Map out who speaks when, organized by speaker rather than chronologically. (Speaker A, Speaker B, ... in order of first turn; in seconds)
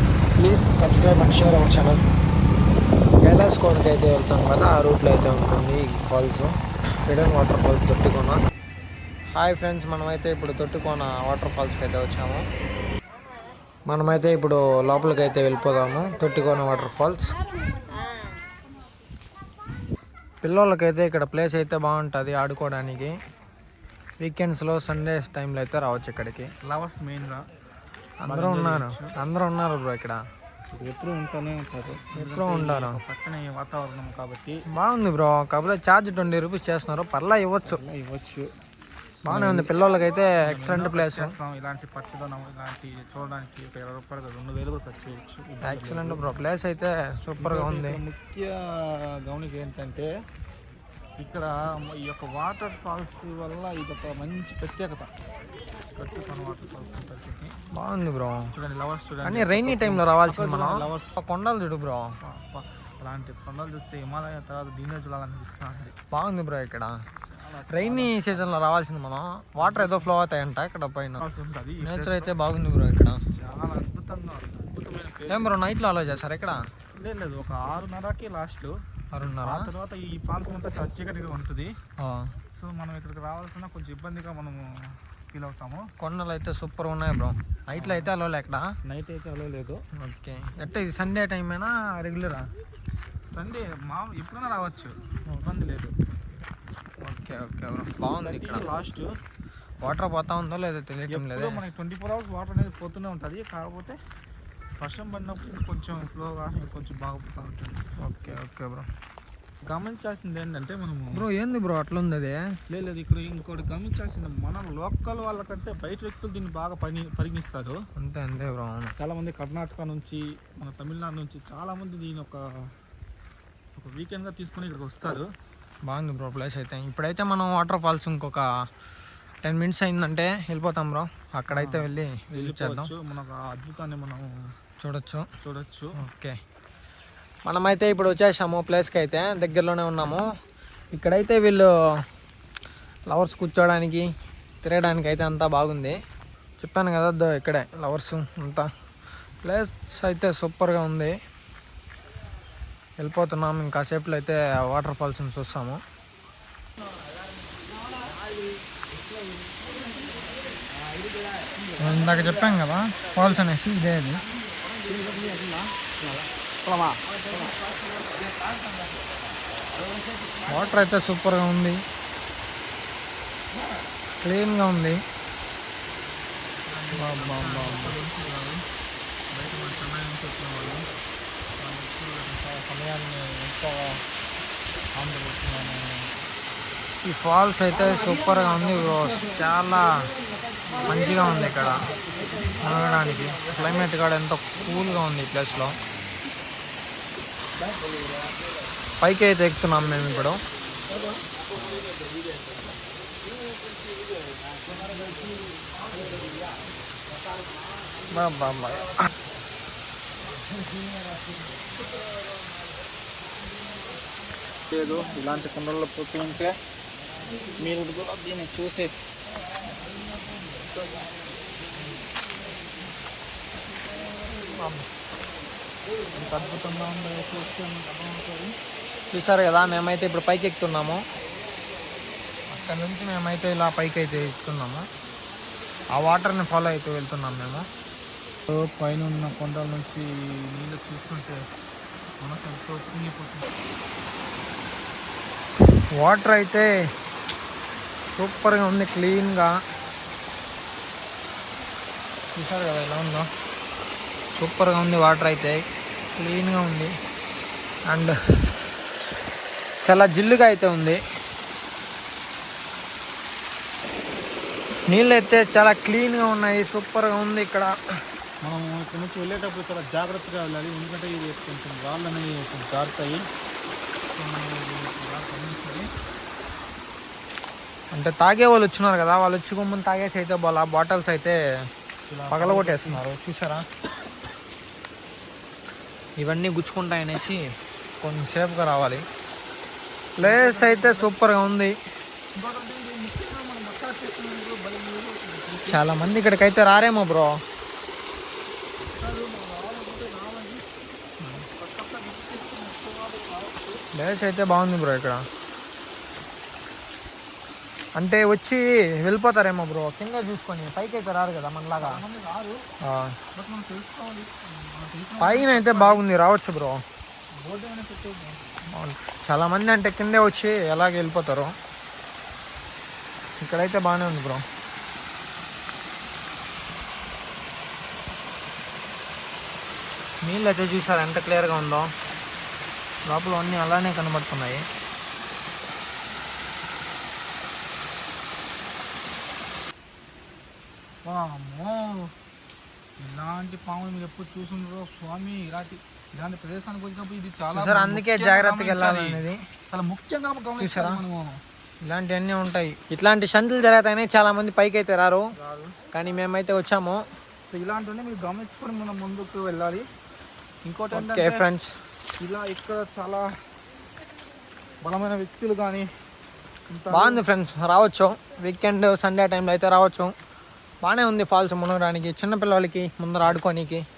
Speaker A: 0.4-2.0, 3.2-6.5, 7.1-8.4, 9.3-12.4, 13.8-17.4, 20.4-23.1, 24.2-26.5, 28.2-30.2, 32.1-33.0, 34.7-37.8, 39.2-41.3, 45.6-48.0, 57.7-58.5, 59.2-62.1, 66.1-67.0, 67.7-71.2, 71.8-73.2, 75.3-76.6, 79.1-79.7, 82.0-82.3, 86.0-88.7, 90.0-92.5, 97.0-98.7, 99.8-101.6, 108.0-108.9, 111.1-112.4, 118.0-118.9, 125.9-128.4, 129.4-132.9, 134.8-135.3, 136.0-136.4, 137.4-140.2, 140.9-141.7, 143.1-144.1, 144.6-145.9, 146.6-148.7, 149.4-151.1, 153.0-155.8, 161.8-164.2, 170.5-171.8, 174.2-175.0, 176.9-177.9, 187.0-189.9, 190.9-191.9, 192.6-195.7, 199.0-200.4, 208.1-209.1, 224.3-224.8, 229.1-231.0, 232.5-234.9, 235.9-237.7, 246.0-246.7, 248.1-249.5, 252.3-253.3, 254.4-255.6, 256.2-256.9, 257.9-258.1, 259.8-261.0, 264.9-267.7, 277.9-281.4, 282.3-283.6, 286.2-287.4, 287.9-289.0, 290.2-291.7, 295.7-297.4, 301.2-301.4, 303.9-305.2, 308.0-312.0, 312.8-313.1, 315.2-316.8, 318.7-321.5, 323.4-324.4, 330.2-331.9, 333.1-334.6, 347.6-349.4, 350.6-351.0, 351.9-355.3, 355.9-357.0, 360.9-361.7, 366.9-370.1, 370.8-373.8
Speaker B: 26.6-27.4, 28.2-29.1, 30.7-34.6, 37.6-38.5, 39.2-39.8, 40.4-46.2, 47.4-50.1, 51.2-55.1, 56.0-57.5, 58.5-61.2, 62.2-65.9, 67.3-68.5, 69.6-70.1, 71.2-72.3, 73.3-75.6, 77.0-78.8, 79.4-81.7, 82.5-85.9, 87.8-88.1, 88.8-89.8, 93.3-95.9, 98.0-99.1, 101.1-104.0, 104.8-108.3, 109.7-111.2, 112.7-117.8, 119.0-122.4, 123.8-125.3, 131.5-134.3, 135.4-135.9, 164.8-167.6, 176.6-178.6, 179.3-180.9, 181.6-184.0, 184.9-186.0, 214.7-216.6, 217.6-218.9, 226.1-228.5, 238.5-241.4, 242.2-243.5, 268.4-273.2, 274.1-275.9, 282.1-283.0, 290.2-291.1, 292.4-295.8, 298.9-300.6, 301.6-303.8, 311.8-312.6, 313.4-316.0, 317.4-318.5, 341.0-342.1, 343.0-351.4, 355.4-355.7, 357.5-359.9, 360.6-361.4, 362.2-363.3, 364.8-365.9, 366.7-367.2